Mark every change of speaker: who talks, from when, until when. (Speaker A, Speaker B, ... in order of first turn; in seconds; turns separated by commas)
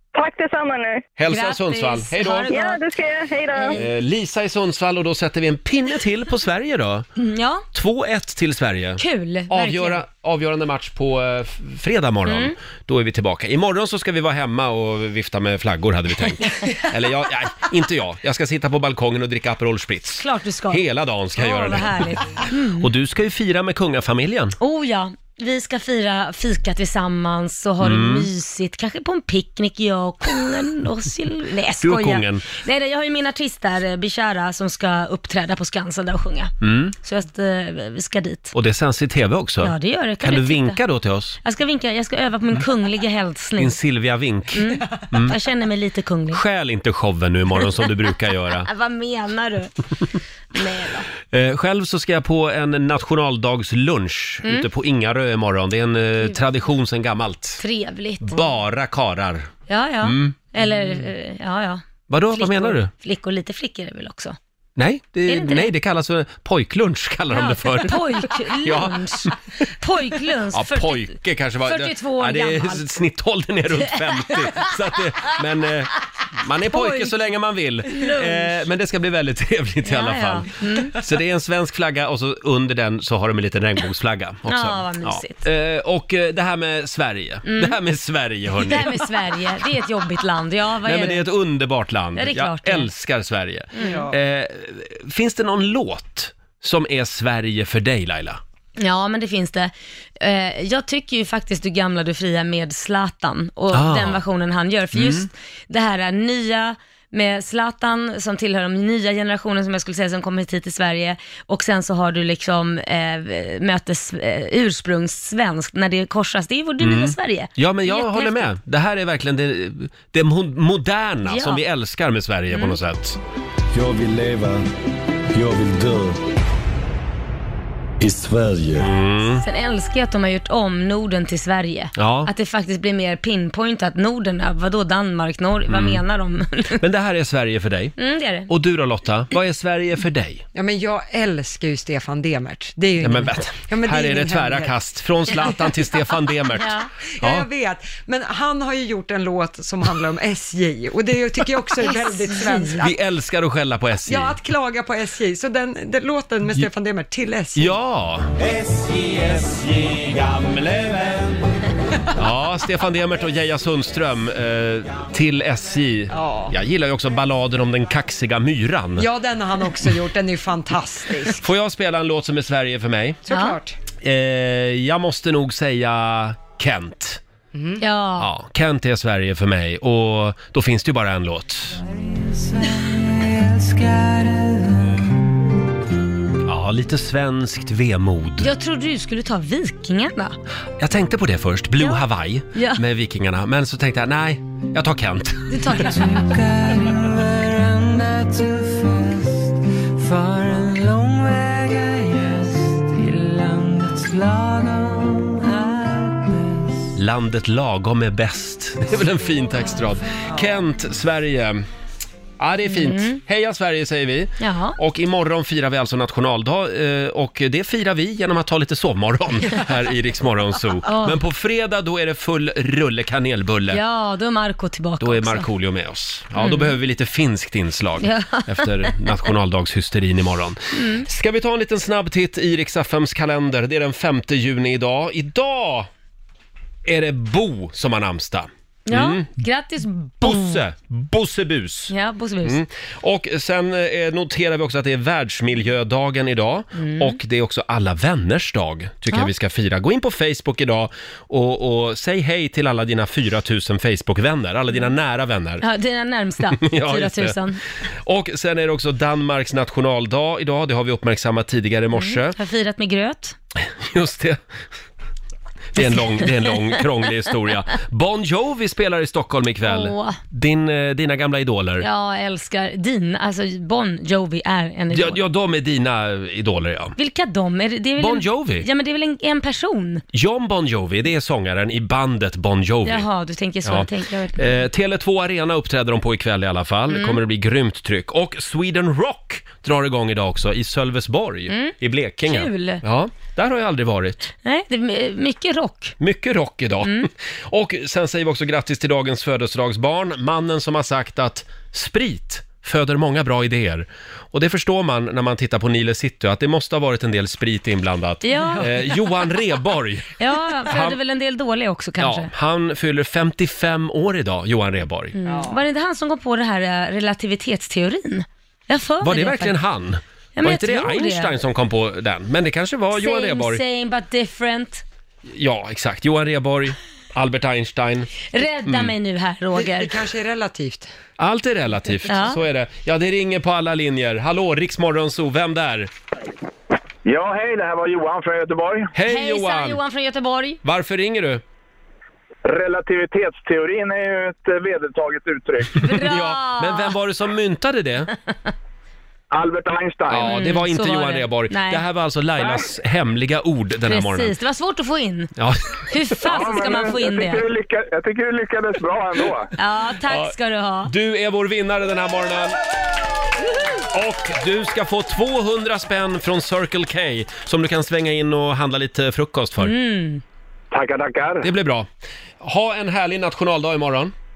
Speaker A: 0.1-1.1, Speaker B: 1.2-2.5, Speaker C: 1.3-2.8, Speaker A: 2.5-3.8, Speaker C: 3.5-3.8, Speaker B: 3.8-7.1, Speaker C: 7.2-7.7, Speaker B: 7.7-24.6, Speaker C: 9.0-10.0, Speaker C: 12.3-12.6, Speaker C: 20.2-22.9, Speaker C: 24.6-38.5, Speaker B: 27.8-28.3, Speaker B: 31.8-32.5, Speaker B: 36.6-37.0, Speaker B: 38.5-41.4, Speaker C: 39.6-40.8, Speaker C: 41.4-43.8, Speaker B: 43.6-45.4, Speaker C: 44.5-46.4, Speaker B: 46.3-48.7, Speaker C: 48.7-49.7, Speaker C: 50.5-51.1, Speaker B: 51.3-57.6, Speaker C: 57.6-58.5, Speaker B: 58.2-59.5, Speaker C: 59.7-64.4, Speaker B: 60.0-61.0, Speaker B: 62.1-62.9, Speaker B: 64.8-69.3, Speaker C: 65.3-65.7, Speaker C: 67.3-71.1, Speaker B: 70.5-89.0, Speaker C: 71.6-72.8, Speaker C: 74.2-74.7, Speaker C: 76.7-77.2, Speaker C: 77.9-78.6, Speaker C: 79.8-81.0, Speaker C: 84.5-85.5, Speaker C: 87.5-87.8, Speaker C: 88.5-91.3, Speaker B: 90.8-98.4, Speaker C: 92.2-92.9, Speaker C: 93.7-94.1, Speaker D: 93.8-94.1, Speaker C: 98.8-118.4, Speaker B: 103.7-104.2, Speaker B: 104.9-105.3, Speaker B: 116.8-123.2, Speaker C: 121.3-121.6, Speaker C: 122.5-122.8, Speaker E: 123.7-124.7, Speaker E: 125.3-126.2, Speaker E: 128.0-128.9, Speaker B: 128.8-129.4, Speaker C: 129.4-136.8, Speaker B: 132.0-132.3, Speaker B: 135.7-136.0, Speaker B: 136.8-137.9, Speaker C: 138.0-138.5, Speaker B: 138.5-140.4, Speaker D: 140.5-144.8, Speaker B: 143.0-147.5, Speaker D: 145.3-145.7, Speaker C: 146.6-146.9, Speaker D: 147.1-152.9, Speaker C: 151.9-152.9, Speaker B: 152.8-154.3, Speaker D: 154.1-157.8, Speaker B: 157.6-158.3, Speaker B: 162.1-169.1, Speaker D: 166.1-166.5, Speaker D: 169.0-171.5, Speaker B: 171.4-173.2, Speaker D: 173.3-173.8, Speaker C: 173.3-173.6, Speaker B: 174.0-177.2, Speaker D: 177.5-177.8, Speaker C: 177.8-178.3, Speaker B: 178.2-181.8, Speaker B: 186.4-188.5, Speaker C: 188.4-190.4, Speaker B: 190.8-196.0, Speaker C: 192.6-192.8, Speaker C: 195.5-196.4, Speaker B: 206.9-211.6, Speaker B: 212.4-223.8, Speaker C: 212.7-213.2, Speaker C: 214.4-214.8, Speaker C: 220.9-221.2, Speaker C: 223.7-225.5, Speaker B: 225.0-235.9, Speaker C: 226.4-226.8, Speaker C: 228.0-228.9, Speaker C: 230.7-231.1, Speaker B: 236.9-239.3, Speaker C: 238.9-240.6, Speaker B: 240.2-241.9, Speaker C: 241.9-242.6, Speaker B: 242.4-255.6, Speaker C: 246.8-247.2, Speaker C: 255.6-257.6, Speaker B: 256.6-257.4, Speaker B: 258.0-262.4, Speaker C: 261.9-263.4, Speaker B: 263.6-264.4, Speaker B: 265.7-271.9, Speaker C: 265.8-266.6, Speaker C: 269.6-270.2, Speaker C: 271.8-275.2, Speaker B: 274.9-277.0, Speaker C: 277.0-280.0, Speaker B: 278.0-278.7, Speaker B: 280.1-283.1, Speaker C: 282.9-284.6, Speaker B: 283.6-294.3, Speaker C: 286.9-287.2, Speaker C: 291.5-291.8, Speaker C: 292.3-292.8, Speaker C: 294.4-295.9, Speaker B: 296.0-311.0, Speaker C: 296.8-297.1, Speaker C: 308.2-309.2, Speaker C: 310.2-312.3, Speaker B: 312.0-315.1, Speaker C: 315.1-319.6, Speaker D: 315.3-315.6, Speaker B: 319.0-323.6, Speaker C: 320.4-321.3, Speaker C: 323.0-324.8, Speaker B: 325.3-328.9, Speaker C: 328.3-330.0, Speaker D: 329.5-330.9, Speaker B: 331.2-335.9, Speaker C: 332.1-332.4, Speaker F: 337.1-338.9, Speaker B: 338.9-339.8, Speaker C: 339.1-340.6, Speaker B: 340.6-341.4, Speaker F: 342.4-345.8, Speaker B: 345.8-348.1, Speaker C: 345.8-346.9, Speaker F: 349.3-350.3, Speaker B: 350.1-354.3, Speaker C: 350.2-351.8, Speaker C: 353.9-355.3, Speaker B: 355.4-356.3, Speaker C: 355.9-357.5, Speaker F: 356.2-359.5, Speaker C: 359.6-360.9, Speaker B: 360.0-360.3, Speaker B: 360.9-362.6, Speaker B: 363.9-369.7, Speaker C: 369.6-370.2, Speaker F: 370.7-371.5, Speaker B: 371.4-371.9, Speaker B: 372.4-374.1